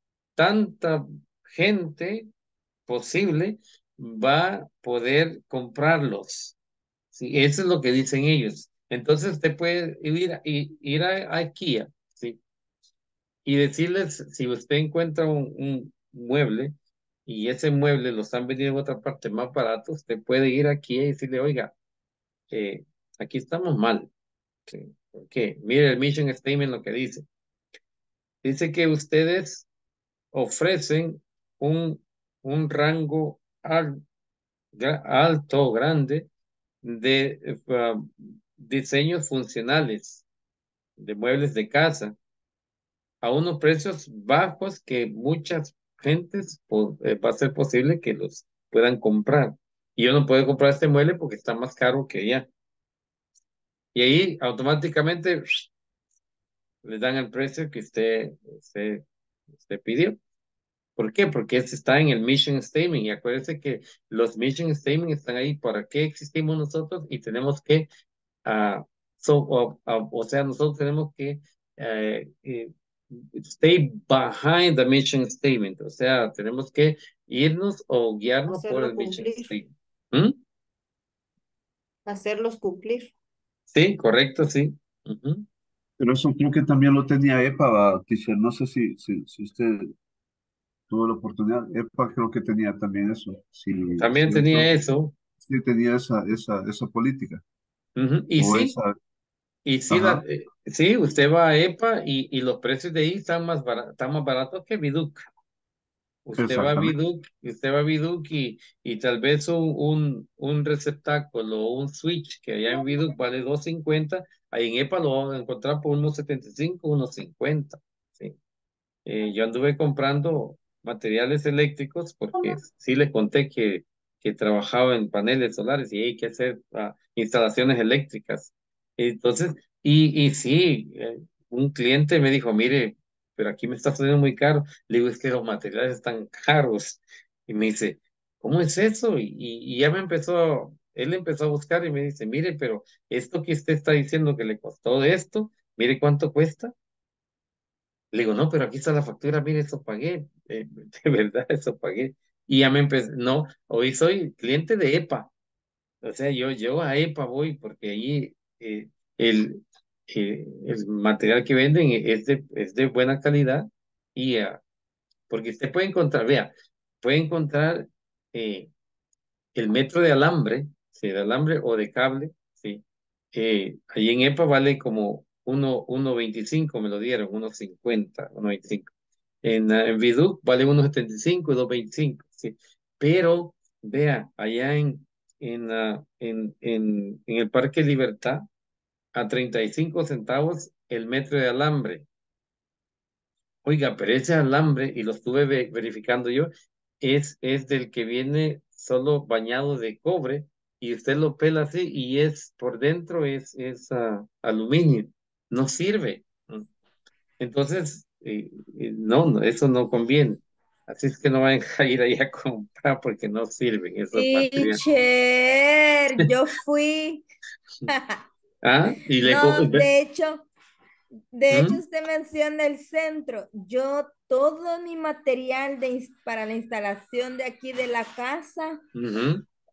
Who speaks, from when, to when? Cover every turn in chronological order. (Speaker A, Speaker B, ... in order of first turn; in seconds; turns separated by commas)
Speaker A: 0.4-2.3, Speaker A: 2.9-6.6, Speaker A: 7.1-12.4, Speaker A: 13.5-16.7, Speaker A: 17.3-21.7, Speaker A: 22.5-24.1, Speaker A: 24.7-27.2, Speaker A: 28.4-29.7, Speaker A: 30.3-34.0, Speaker A: 34.8-36.3, Speaker A: 36.8-40.2, Speaker A: 41.0-42.2, Speaker A: 43.2-52.5, Speaker A: 54.0-55.7, Speaker A: 56.8-59.0, Speaker A: 59.6-60.2, Speaker A: 61.0-67.9, Speaker A: 68.5-80.4, Speaker B: 78.5-79.5, Speaker B: 82.1-83.1, Speaker A: 83.7-85.5, Speaker C: 86.0-89.9, Speaker C: 90.9-94.7, Speaker A: 94.0-95.1, Speaker C: 95.4-97.4, Speaker A: 98.0-98.8, Speaker C: 98.4-99.0, Speaker A: 99.7-105.2, Speaker C: 99.9-100.2, Speaker A: 106.2-118.3, Speaker C: 106.3-107.0, Speaker A: 119.1-146.7, Speaker A: 148.1-155.3, Speaker A: 156.0-164.6, Speaker A: 165.3-166.5, Speaker A: 167.0-168.7, Speaker A: 169.6-172.8, Speaker A: 173.3-178.9, Speaker A: 179.4-188.5, Speaker A: 189.1-192.1, Speaker A: 193.7-206.7, Speaker A: 207.4-214.8, Speaker D: 214.1-217.2, Speaker D: 217.9-218.2, Speaker A: 218.6-219.9, Speaker D: 219.2-220.5, Speaker D: 221.3-228.8, Speaker A: 221.5-221.8, Speaker A: 228.9-229.4